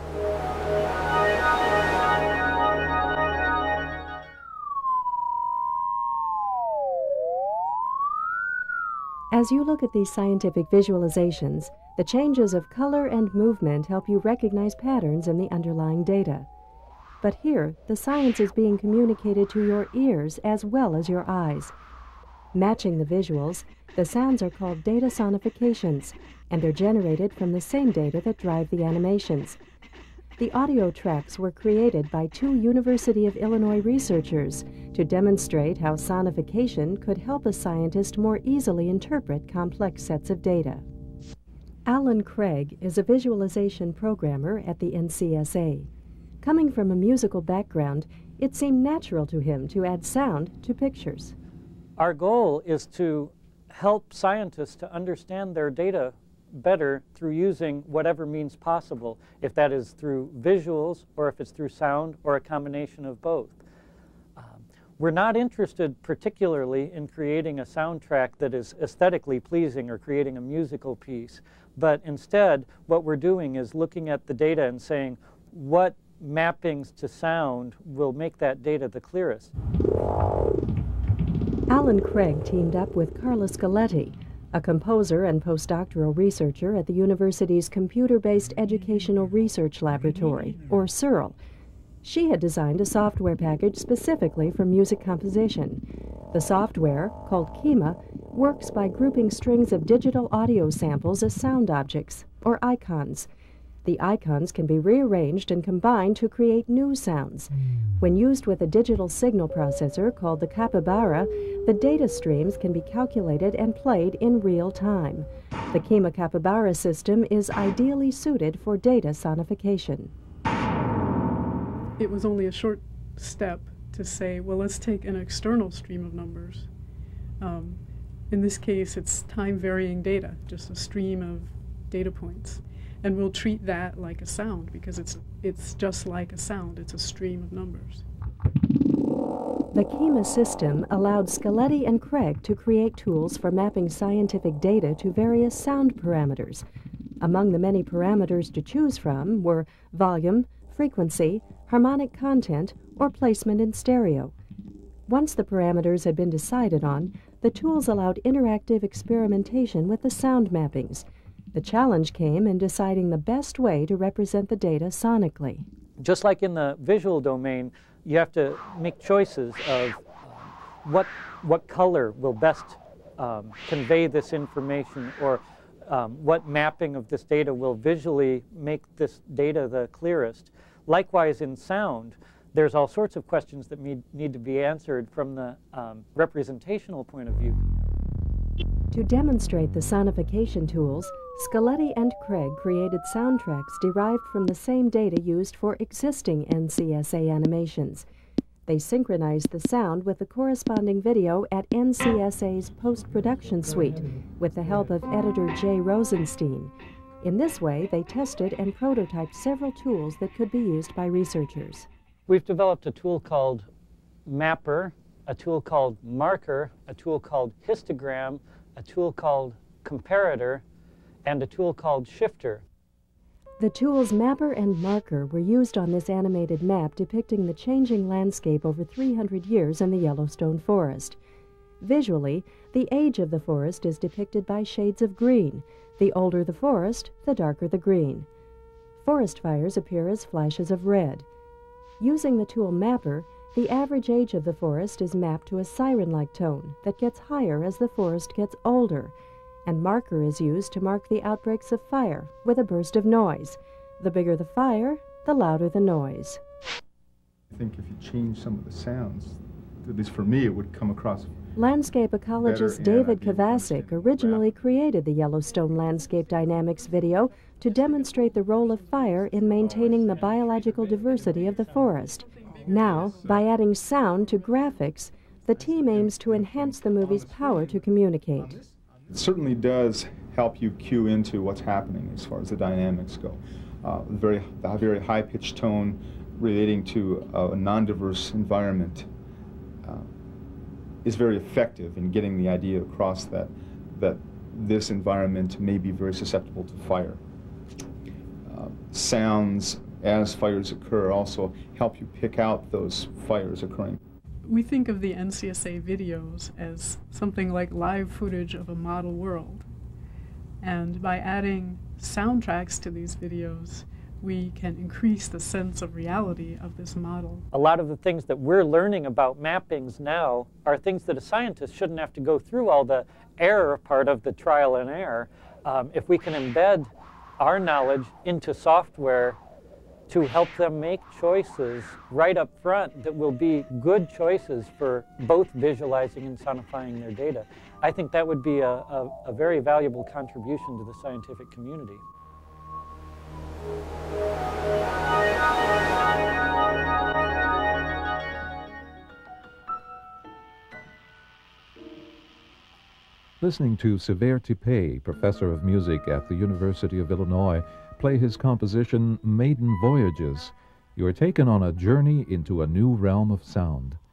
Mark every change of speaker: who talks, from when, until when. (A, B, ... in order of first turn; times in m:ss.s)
0:09.3-0:16.5 A
0:17.2-0:21.7 A
0:22.5-0:29.6 A
0:30.4-0:40.8 A
0:41.8-0:45.9 A
0:46.4-0:51.3 A
0:52.0-1:03.6 B
1:04.4-1:19.5 B
1:21.7-1:31.4 A
1:32.0-1:43.3 A
1:43.8-2:00.1 A
2:02.0-2:06.7 C
2:07.4-2:18.0 C
2:19.7-2:26.6 A
2:27.2-2:34.3 A
2:35.1-2:45.6 A
2:46.0-3:07.6 B
3:08.9-3:18.0 A
3:18.7-3:31.9 A
3:32.3-3:33.7 B
3:34.2-3:40.6 B
3:41.2-3:42.6 B
3:43.6-3:51.2 A
3:51.8-3:58.3 A
3:59.0-4:01.2 A
4:02.0-4:09.1 A
4:09.6-4:16.4 A
4:17.5-4:21.3 D
4:21.6-4:38.6 A
4:22.4-4:24.4 D
4:32.3-4:32.7 C
4:39.1-4:49.1 D
4:51.0-4:57.2 D
4:58.5-5:04.0 D
5:04.4-5:09.6 C
5:10.6-5:17.4 C
5:17.5-5:29.4 B
5:30.1-5:42.0 B
5:53.4-6:04.0 E